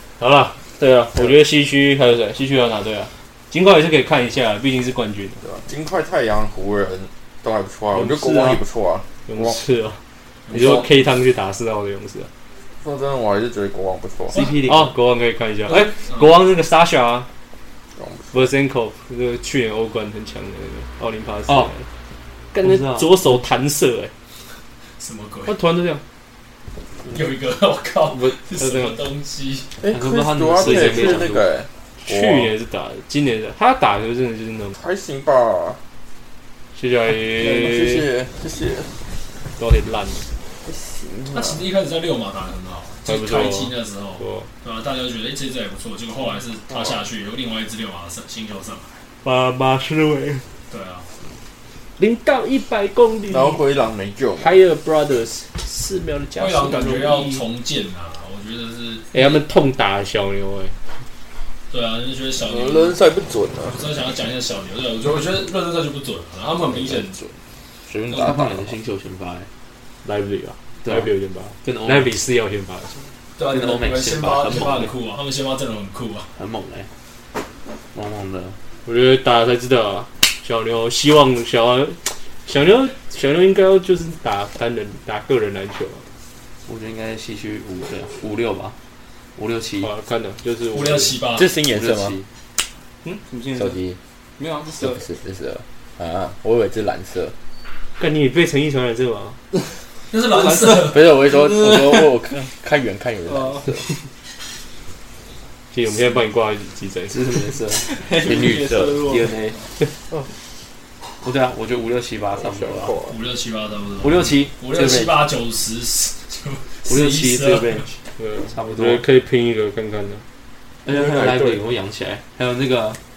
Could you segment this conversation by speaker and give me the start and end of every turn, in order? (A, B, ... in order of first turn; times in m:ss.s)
0:00.2-0:05.4 A
0:01.2-0:01.4 B
0:05.4-0:09.6 B
0:07.9-0:08.6 A
0:09.3-0:10.0 A
0:10.5-0:11.1 C
0:10.5-0:12.3 A
0:12.8-0:14.4 B
0:14.3-0:14.7 C
0:14.3-0:15.0 D
0:14.6-0:17.3 A
0:15.7-0:16.4 C
0:18.0-0:18.5 B
0:18.3-0:21.8 A
0:22.5-0:24.1 A
0:22.6-0:23.2 D
0:25.0-0:25.6 C
0:25.5-0:26.0 A
0:27.1-0:29.7 C
0:28.1-0:29.0 A
0:29.8-0:32.5 B
0:29.9-0:31.4 D
0:30.6-0:31.3 A
0:32.0-0:34.8 A
0:34.8-0:35.8 B
0:36.8-0:38.1 A
0:37.3-0:38.9 B
0:39.6-0:40.3 A
0:40.6-0:41.7 B
0:41.3-0:49.0 C
0:43.1-0:44.5 A
0:49.2-0:50.4 A
0:50.7-0:51.1 C
0:52.0-0:53.6 A
0:53.3-0:54.6 B
0:54.4-0:57.4 A
0:56.4-0:59.4 C
0:59.1-1:00.7 A
1:01.7-1:03.0 C
1:02.4-1:03.8 B
1:03.7-1:07.2 C
1:06.7-1:07.3 B
1:07.9-1:08.8 B
1:08.1-1:09.5 D
1:10.0-1:13.1 A
1:10.8-1:12.2 D
1:13.4-1:16.3 C
1:13.5-1:14.9 D
1:16.4-1:16.9 D
1:17.9-1:18.6 D
1:18.9-1:26.0 A
1:26.7-1:28.8 D
1:29.4-1:29.9 D
1:29.8-1:31.2 A
1:30.7-1:31.5 C
1:31.4-1:32.2 B
1:31.7-1:32.2 D
1:33.1-1:33.8 E
1:33.5-1:34.0 B
1:34.4-1:35.0 E
1:34.8-1:37.4 B
1:38.0-1:39.4 A
1:40.1-1:41.2 C
1:40.3-1:42.2 E
1:40.8-1:43.8 B
1:43.3-1:43.9 E
1:45.7-1:47.4 A
1:47.1-1:48.4 D
1:47.9-1:49.3 E
1:48.2-1:49.0 B
1:49.0-1:49.6 D
1:51.2-1:53.0 D
1:52.4-1:53.1 B
1:53.1-1:57.9 C
1:54.0-1:55.3 D
1:56.9-1:59.0 D
1:58.2-2:00.2 A
2:00.8-2:03.0 D
2:00.9-2:01.6 A